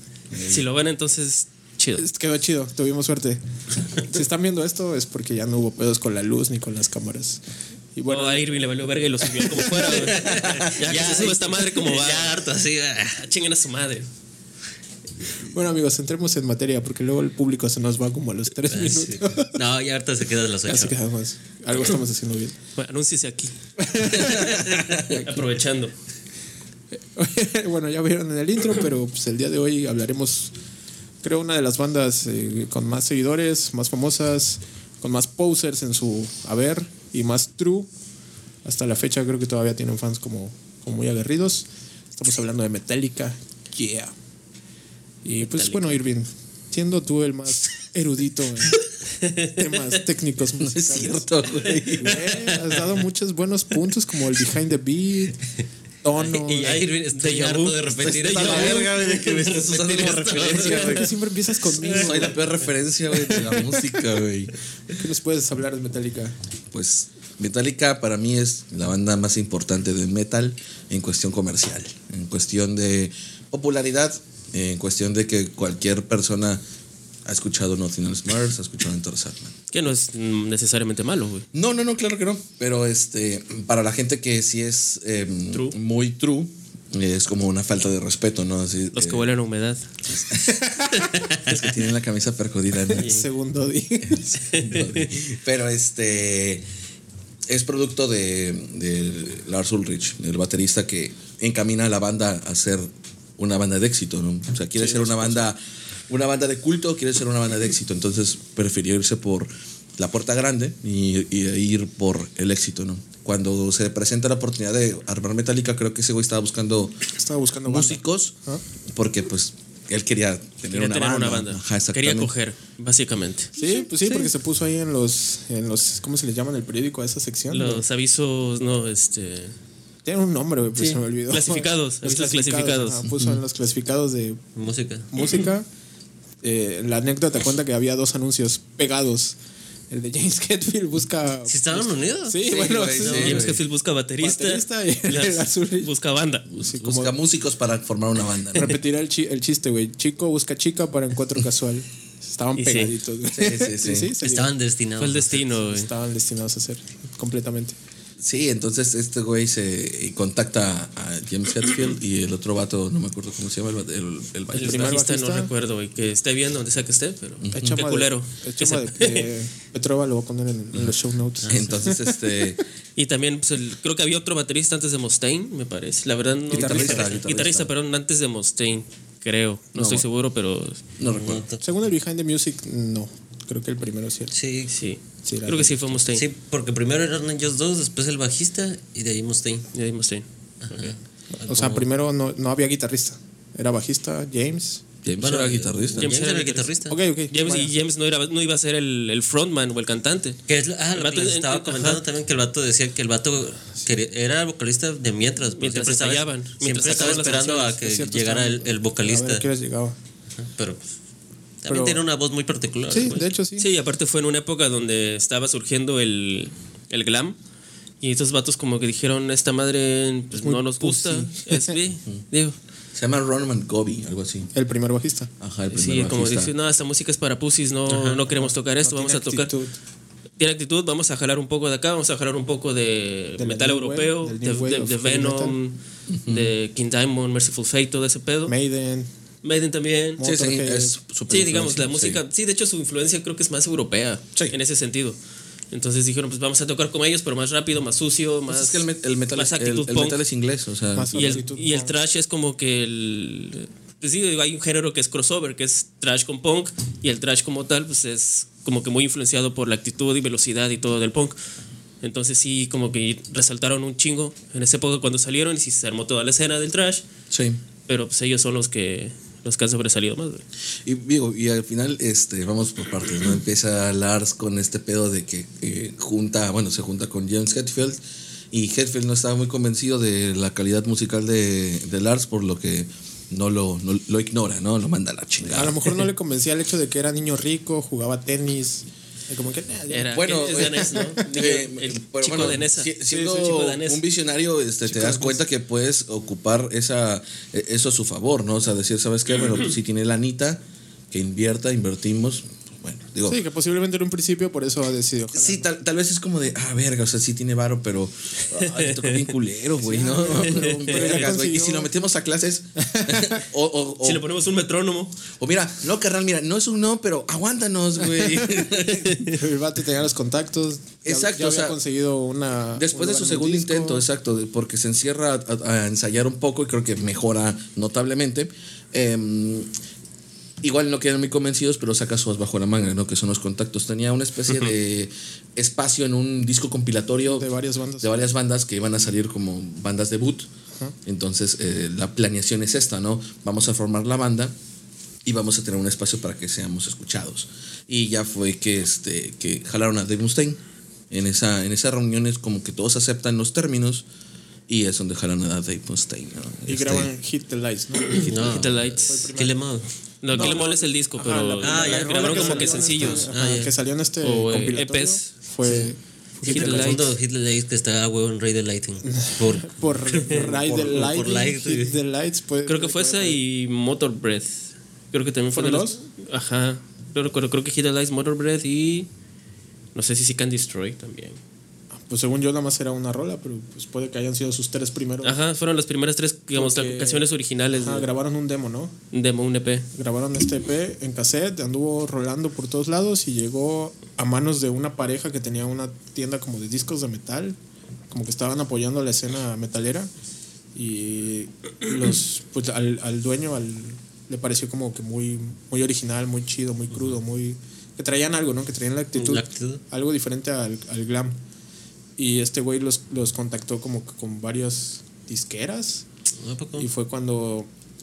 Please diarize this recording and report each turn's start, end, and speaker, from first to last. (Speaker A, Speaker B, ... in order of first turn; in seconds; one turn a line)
Speaker A: 0.3-0.6
Speaker B: 0.4-2.0
Speaker C: 2.0-7.4
Speaker C: 7.9-8.5
Speaker B: 8.1-12.4
Speaker C: 9.2-10.1
Speaker D: 9.8-13.3
Speaker A: 10.4-10.7
Speaker B: 13.2-14.1
Speaker C: 15.5-19.5
Speaker D: 18.7-20.9
Speaker C: 20.7-22.6
Speaker B: 22.8-25.9
Speaker C: 23.8-25.6
Speaker A: 24.2-24.9
Speaker C: 27.1-30.5
Speaker C: 31.2-37.9
Speaker C: 38.6-44.1
Speaker C: 45.2-55.4
Speaker B: 45.5-45.9
Speaker A: 50.6-52.4
Speaker D: 52.5-52.9
Speaker C: 56.0-56.9
Speaker D: 56.2-61.1
Speaker B: 56.6-57.8
Speaker A: 57.9-61.1
Speaker C: 58.2-58.8
Speaker B: 58.4-58.8
Speaker C: 60.3-62.4
Speaker D: 61.7-62.2
Speaker A: 61.8-64.5
Speaker D: 63.3-63.6
Speaker C: 64.9-66.4
Speaker A: 66.7-76.6
Speaker A: 77.2-79.6
Speaker B: 79.7-81.5
Speaker A: 81.5-89.3
Speaker B: 85.5-85.8
Speaker B: 88.9-89.9
Speaker A: 90.1-90.6
Speaker A: 91.4-93.1
Speaker C: 92.9-94.5
Speaker B: 93.0-93.2
Speaker A: 94.0-96.7
Speaker B: 94.5-95.2
Speaker A: 97.5-117.1
Speaker C: 104.8-105.4
Speaker C: 117.1-118.6
Speaker A: 117.7-118.3
Speaker A: 118.9-122.3
Speaker B: 120.7-123.5
Speaker C: 123.5-127.8
Speaker B: 127.5-129.6
Speaker C: 130.1-134.4
Speaker B: 130.8-133.1
Speaker A: 133.1-133.4
Speaker D: 134.6-135.1
Speaker C: 135.1-135.7
Speaker C: 136.4-139.4
Speaker C: 139.9-143.6
Speaker D: 141.5-142.9
Speaker A: 142.5-143.6
Speaker B: 142.9-146.5
Speaker C: 144.2-145.9
Speaker A: 146.5-148.8
Speaker C: 146.6-147.2
Speaker C: 148.5-154.5
Speaker B: 152.6-152.9
Speaker A: 153.3-154.1
Speaker D: 154.2-155.4
Speaker B: 155.0-155.9
Speaker C: 155.4-157.8
Speaker A: 158.2-165.0
Speaker B: 164.5-169.3
Speaker C: 164.6-165.5
Speaker A: 167.4-167.8
Speaker C: 167.5-172.0
Speaker A: 171.5-172.6
Speaker B: 173.0-180.8
Speaker C: 176.5-177.2
Speaker A: 176.5-177.7
Speaker A: 179.8-180.1
Speaker A: 181.0-181.4
Speaker D: 181.0-181.6
Speaker C: 181.6-184.3
Speaker D: 184.3-184.8
Speaker B: 184.7-186.2
Speaker C: 185.2-186.0
Speaker D: 186.1-189.7
Speaker B: 189.7-190.9
Speaker D: 190.6-191.8
Speaker C: 191.3-194.8
Speaker A: 195.0-196.1
Speaker D: 195.2-197.0
Speaker B: 196.0-196.8
Speaker C: 196.9-197.7
Speaker B: 197.3-200.4
Speaker D: 200.5-209.5
Speaker B: 200.9-202.0
Speaker B: 205.5-207.8
Speaker C: 206.8-210.0
Speaker D: 210.4-210.9
Speaker D: 211.6-213.3
Speaker C: 211.7-212.0
Speaker C: 212.9-213.7
Speaker B: 213.6-217.4
Speaker B: 218.0-222.6
Speaker C: 220.4-221.8
Speaker A: 222.9-224.5
Speaker C: 224.5-225.3
Speaker A: 225.4-226.5
Speaker B: 225.7-229.5
Speaker D: 227.9-228.2
Speaker C: 228.3-229.8
Speaker B: 230.4-238.5
Speaker C: 233.4-235.6
Speaker A: 236.1-236.5
Speaker C: 238.5-239.1
Speaker B: 239.4-240.2
Speaker C: 240.2-241.0
Speaker A: 240.2-242.2
Speaker B: 241.3-245.2
Speaker B: 245.7-250.2
Speaker A: 248.5-251.4
Speaker C: 250.9-252.0
Speaker B: 251.1-261.4
Speaker B: 262.0-267.0
Speaker A: 267.3-267.6
Speaker B: 267.9-270.4
Speaker A: 270.9-278.0
Speaker A: 278.5-285.9
Speaker C: 285.5-291.0
Speaker B: 289.9-294.0
Speaker A: 290.1-303.4
Speaker C: 293.1-293.5
Speaker C: 294.9-295.4
Speaker C: 303.2-305.7
Speaker A: 305.3-314.2
Speaker B: 308.6-309.3
Speaker C: 309.8-311.9
Speaker B: 310.4-311.3
Speaker C: 312.9-313.4
Speaker B: 314.0-315.1
Speaker A: 315.4-319.3
Speaker C: 318.2-318.6
Speaker C: 319.2-324.0
Speaker A: 321.0-321.8
Speaker A: 322.8-329.7
Speaker A: 330.6-337.5
Speaker C: 337.2-338.2
Speaker A: 338.0-340.5
Speaker A: 341.0-344.5
Speaker A: 345.2-350.6
Speaker A: 351.1-354.1
Speaker A: 354.7-357.1
Speaker C: 356.7-359.6
Speaker D: 358.1-360.6
Speaker B: 358.2-359.1
Speaker B: 360.2-363.4
Speaker C: 360.3-367.1
Speaker D: 361.6-363.7
Speaker B: 364.2-365.3
Speaker B: 366.4-367.1
Speaker D: 366.4-372.0
Speaker C: 369.0-373.4
Speaker A: 370.6-371.0
Speaker B: 372.6-379.1
Speaker C: 375.5-376.0
Speaker B: 379.9-381.4
Speaker C: 381.9-385.4
Speaker B: 385.2-388.1
Speaker C: 386.5-388.9
Speaker B: 389.1-389.9
Speaker C: 389.9-397.6
Speaker C: 398.1-400.1
Speaker C: 400.8-411.4
Speaker D: 406.9-407.2
Speaker D: 409.1-409.8
Speaker C: 412.2-416.0
Speaker D: 416.4-416.9
Speaker C: 416.8-417.7